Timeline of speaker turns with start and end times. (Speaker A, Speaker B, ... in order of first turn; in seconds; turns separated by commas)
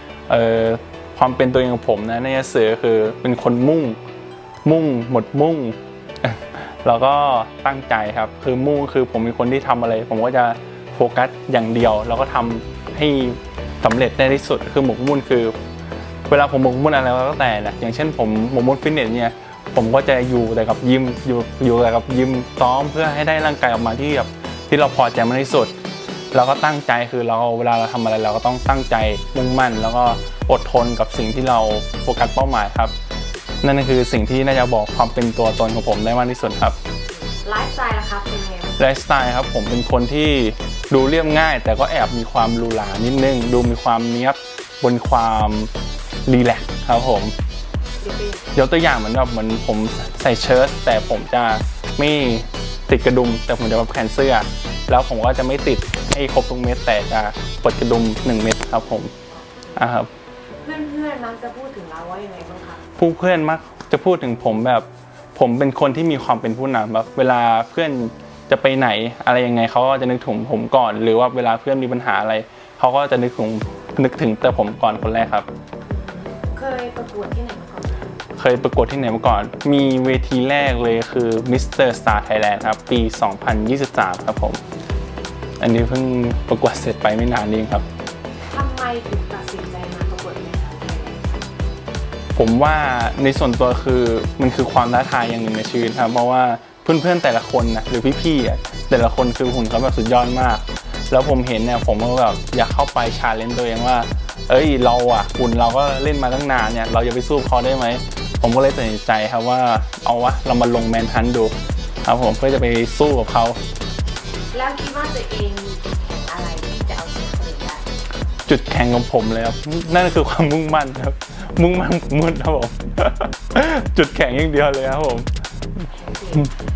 Speaker A: 0.3-4.0, Speaker A: 4.7-15.6, Speaker A: 16.3-25.7, Speaker A: 26.3-32.9, Speaker A: 33.6-36.8, Speaker B: 37.4-38.8, Speaker A: 38.8-45.7, Speaker A: 46.3-47.3, Speaker B: 48.0-48.5, Speaker A: 48.5-59.1, Speaker B: 59.3-59.8, Speaker A: 59.8-60.1, Speaker B: 60.6-62.8, Speaker A: 63.0-75.5, Speaker B: 75.9-78.1, Speaker A: 78.4-84.6, Speaker A: 85.6-87.9, Speaker B: 88.5-91.4, Speaker A: 92.3-113.6, Speaker B: 114.5-117.8, Speaker A: 118.5-125.9, Speaker B: 125.9-126.5